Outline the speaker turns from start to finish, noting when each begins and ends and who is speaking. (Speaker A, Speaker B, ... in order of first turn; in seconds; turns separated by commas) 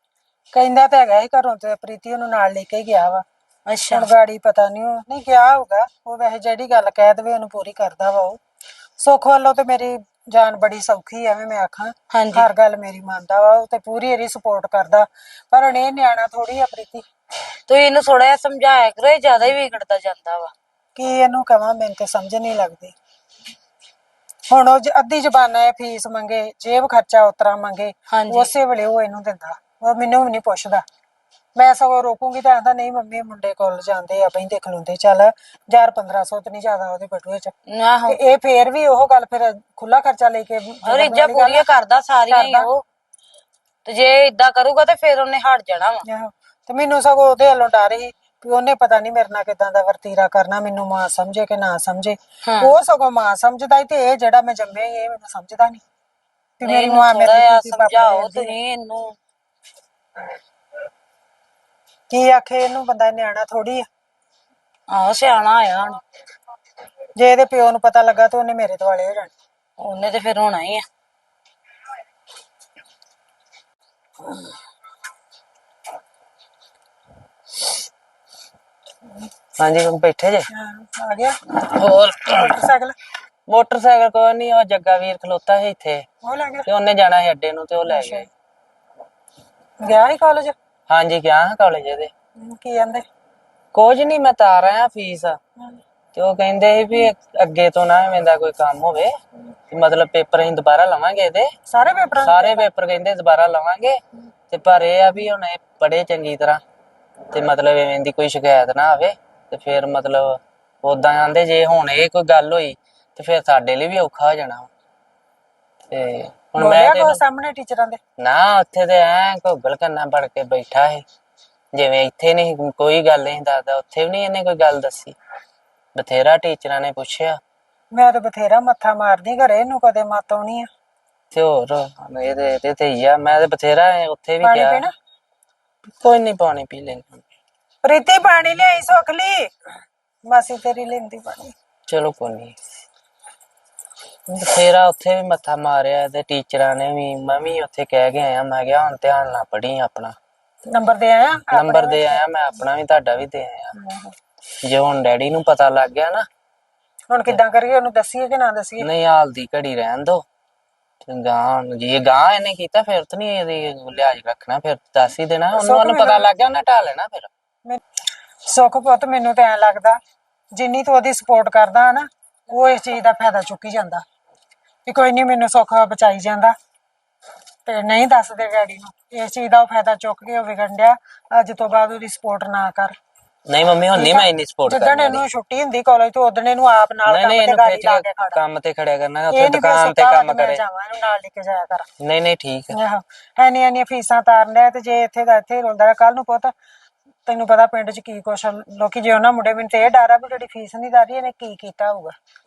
Speaker A: 0.5-3.2, Speaker B: 3.7-4.1, Speaker A: 3.9-8.4, Speaker A: 9.0-17.0, Speaker B: 12.1-12.5, Speaker B: 17.7-20.5, Speaker A: 20.9-22.9, Speaker A: 24.5-30.8, Speaker B: 28.1-28.5, Speaker A: 31.5-37.5, Speaker B: 37.7-38.2, Speaker A: 38.1-41.6, Speaker B: 40.9-42.8, Speaker A: 42.3-42.7, Speaker B: 43.8-46.0, Speaker A: 46.1-55.8, Speaker B: 52.4-52.8, Speaker A: 56.6-58.5, Speaker B: 56.6-59.1, Speaker A: 62.1-63.9, Speaker B: 64.9-66.0, Speaker A: 67.2-69.3, Speaker B: 69.8-70.8, Speaker C: 79.6-80.4, Speaker A: 80.5-81.3, Speaker C: 81.7-82.5, Speaker A: 82.2-82.9, Speaker C: 83.5-86.0, Speaker A: 86.2-86.7, Speaker C: 86.7-88.2, Speaker A: 87.8-88.3, Speaker A: 89.8-90.5, Speaker C: 90.9-92.1, Speaker A: 92.4-93.0, Speaker C: 93.7-95.4, Speaker C: 96.1-99.1, Speaker C: 99.7-101.5, Speaker A: 101.7-102.7, Speaker C: 102.2-104.0, Speaker C: 104.5-106.6, Speaker C: 107.3-114.7, Speaker C: 115.9-117.2, Speaker A: 116.5-118.0, Speaker C: 118.2-121.0, Speaker C: 121.7-125.1, Speaker C: 126.0-127.4, Speaker A: 127.9-130.7, Speaker C: 131.3-134.8, Speaker A: 134.4-134.9, Speaker C: 135.8-137.2, Speaker A: 137.8-139.5, Speaker A: 140.2-141.5, Speaker C: 141.9-142.5, Speaker C: 144.4-150.2, Speaker A: 150.7-152.6, Speaker C: 151.5-153.7, Speaker A: 153.7-154.1, Speaker C: 154.6-156.2, Speaker A: 157.1-158.9, Speaker C: 158.8-160.2, Speaker C: 161.1-167.3, Speaker A: 165.5-166.3, Speaker A: 168.5-170.0, Speaker A: 170.5-174.0, Speaker A: 174.8-176.5, Speaker A: 177.7-182.9, Speaker C: 183.5-185.2, Speaker A: 183.9-188.4, Speaker C: 187.1-190.6, Speaker A: 189.3-191.9, Speaker C: 192.0-192.8, Speaker A: 192.7-196.5, Speaker A: 197.2-202.1